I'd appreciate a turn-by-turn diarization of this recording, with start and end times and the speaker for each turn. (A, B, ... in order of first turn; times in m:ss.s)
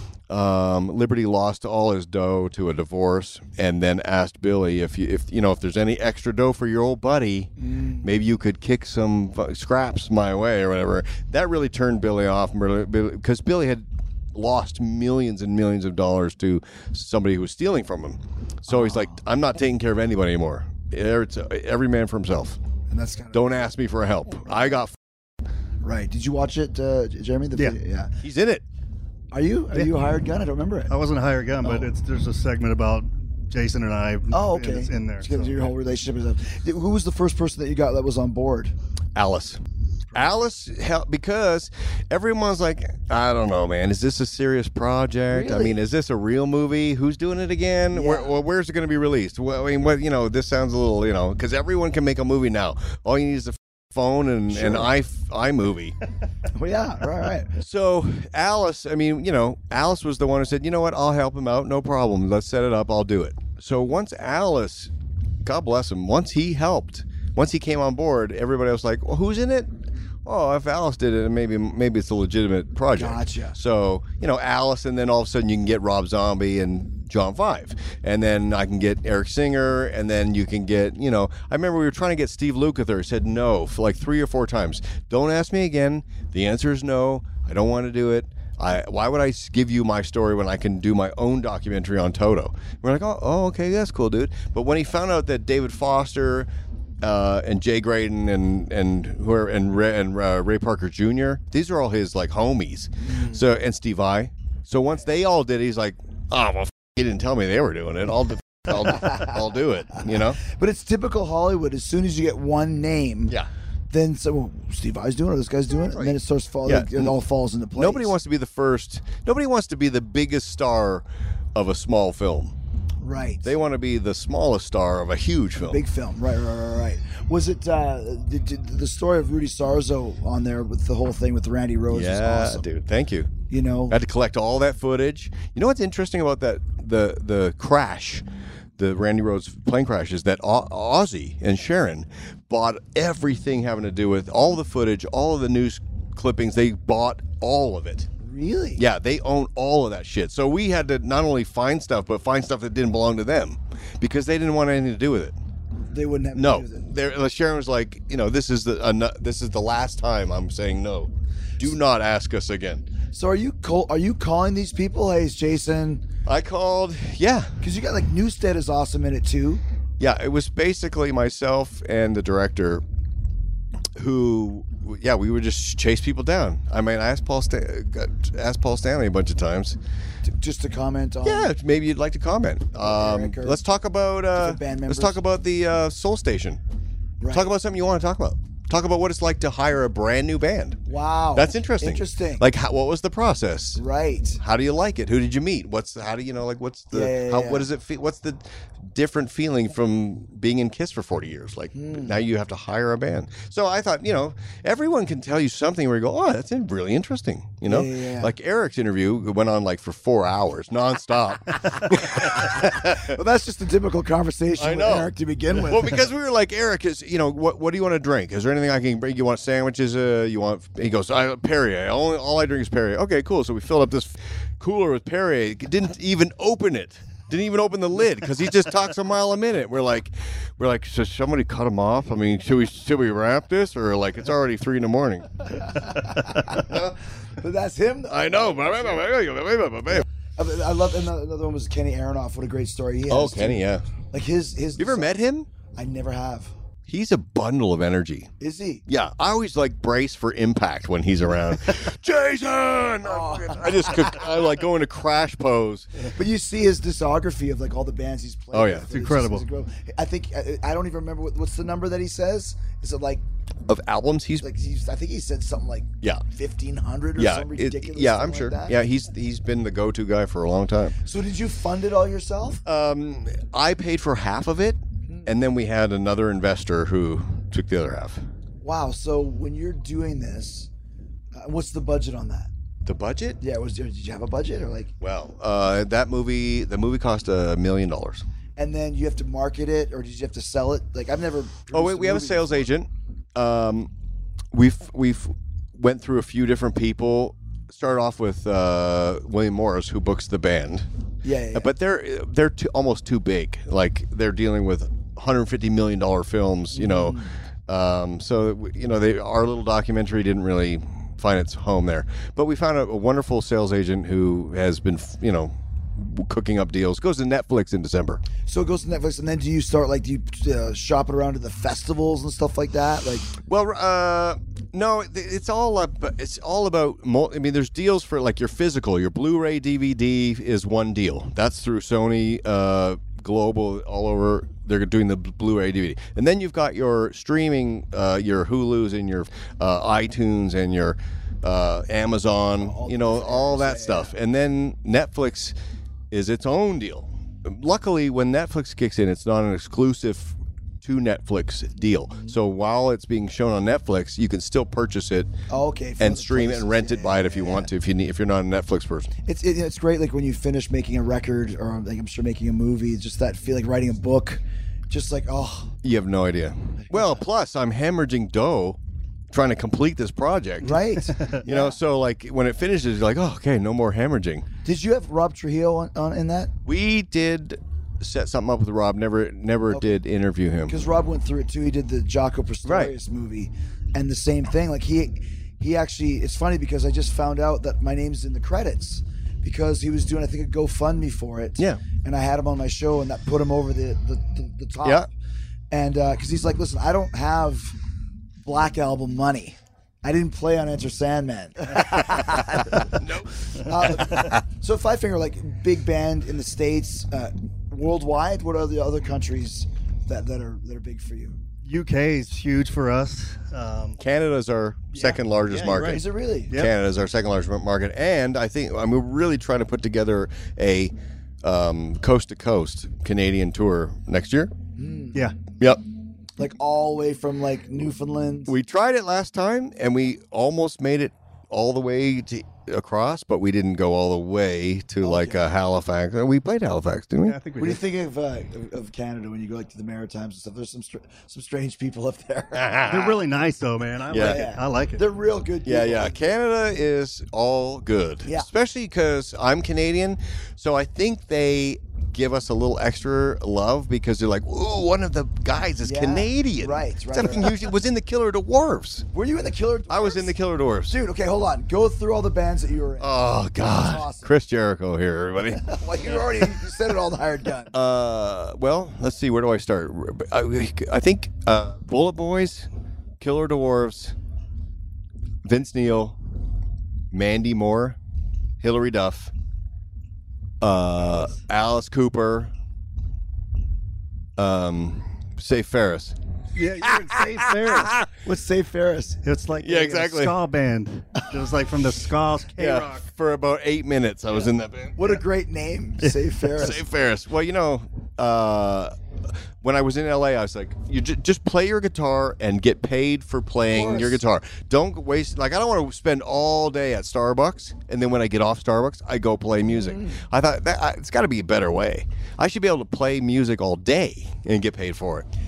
0:00.3-0:07.5 A
0:07.6-0:08.1 B
0:08.0-0:22.6 A
0:18.7-0:19.2 B
0:22.9-0:23.6 B
0:23.3-0:25.0 A
0:25.8-0:28.1 B
0:28.2-0:28.6 A
0:29.3-0:30.9 B
0:30.9-0:35.7 C
0:31.6-0:31.9 B
0:34.3-0:38.7 B
0:39.1-0:39.6 A
0:40.1-0:40.4 B
0:40.1-0:56.0 A
0:45.3-0:45.8 B
0:47.9-0:48.3 B
0:54.5-0:54.9 B
0:56.5-0:57.5 B
0:57.6-1:04.9 A
1:05.4-1:09.7 A
1:10.2-1:36.5 A
1:12.9-1:13.6 B
1:37.0-1:50.4 A
1:43.0-1:43.4 B
1:50.4-1:53.3 B
1:53.9-1:58.1 B
1:55.9-1:57.1 A
1:57.7-2:02.5 A
2:03.0-2:03.5 B
2:03.4-2:05.8 A
2:05.6-2:12.6 B
2:11.9-2:18.2 A
2:13.5-2:14.0 B
2:18.8-2:28.1 A
2:28.2-2:28.8 B
2:28.8-2:35.3 A
2:35.8-2:36.8 B
2:36.3-2:42.9 A
2:43.1-2:46.0 B
2:46.2-2:47.6 A
2:47.6-2:49.6 B
2:50.0-2:52.8 A
2:54.0-2:59.8 A
3:00.2-3:01.5 B
3:01.2-3:06.6 A
3:02.7-3:03.6 B
3:04.3-3:05.2 B
3:07.2-3:07.5 B
3:07.3-3:10.8 A
3:10.8-3:12.4 B
3:11.3-3:13.8 A
3:13.8-3:14.4 B
3:14.4-3:33.1 A
3:16.9-3:17.7 B
3:21.7-3:22.2 B
3:27.7-3:28.3 B
3:32.9-3:36.0 B
3:34.6-3:55.5 A
3:55.6-3:56.8 B
3:56.5-3:57.0 A
3:57.4-3:58.6 B
3:58.1-4:00.0 A
4:00.4-4:05.2 B
4:03.1-4:03.9 A
4:04.8-4:05.5 A
4:05.7-4:06.5 B
4:06.9-4:08.3 A
4:08.4-4:08.8 B
4:08.9-4:16.1 A
4:13.0-4:14.2 B
4:16.1-4:23.2 B
4:18.5-4:18.9 A
4:18.9-4:19.4 C
4:23.7-4:24.5 A
4:24.4-4:28.8 B
4:27.2-4:31.0 A
4:31.0-4:32.6 B
4:32.6-4:38.2 A
4:35.1-4:35.3 B
4:38.6-4:40.7 B
4:41.3-4:42.5 B
4:42.8-4:43.4 A
4:43.4-4:44.9 B
4:45.0-4:48.2 A
4:48.6-4:52.7 B
4:51.7-4:53.9 A
4:54.5-5:00.9 A
5:01.2-5:01.7 B
5:01.5-5:18.2 A
5:06.7-5:07.3 B
5:18.5-5:23.3 B
5:23.4-5:45.5 A
5:42.6-5:44.1 B
5:46.1-5:55.3 A
5:52.1-5:52.4 B
5:55.5-5:57.7 B
5:56.0-5:59.1 A
5:59.3-6:05.7 B
6:05.8-6:08.8 A
6:06.9-6:07.2 B
6:09.3-6:10.8 A
6:10.6-6:11.8 B
6:11.1-6:11.4 C
6:11.4-6:14.5 A
6:14.6-6:16.5 B
6:16.6-6:20.8 A
6:19.7-6:20.0 B
6:20.7-6:35.1 B
6:22.6-6:22.9 A
6:35.7-6:37.7 B
6:38.4-6:42.9 B
6:41.8-6:44.4 A
6:43.5-6:51.4 B
6:51.6-6:54.0 C
6:54.0-7:04.5 A
6:54.9-6:56.7 C
6:55.8-6:56.6 B
7:04.8-7:05.3 B
7:06.4-7:08.5 B
7:08.5-7:17.4 A
7:15.0-7:15.4 B
7:17.2-7:17.8 C
7:17.6-7:22.9 B
7:22.5-7:23.2 A
7:22.9-7:25.0 C
7:24.1-7:24.4 A
7:24.2-7:26.1 B
7:25.6-7:39.1 A
7:35.8-7:37.5 B
7:39.1-7:40.3 B
7:39.9-7:41.0 A
7:40.9-7:44.3 B
7:43.0-7:46.2 A
7:45.6-7:47.7 B
7:47.7-7:52.7 A
7:53.2-7:54.1 A
7:55.4-7:56.2 A
7:57.1-7:58.0 A
7:58.6-7:59.3 A
8:00.6-8:02.5 A
8:04.4-8:06.2 A
8:06.6-8:07.9 C
8:06.9-8:08.1 A
8:08.2-8:09.2 B
8:09.2-8:13.0 C
8:09.6-8:10.3 A
8:12.6-8:15.2 A
8:15.0-8:16.8 B
8:16.0-8:16.6 C
8:16.6-8:18.9 A
8:19.6-8:35.2 A
8:23.7-8:24.2 B
8:29.7-8:30.2 B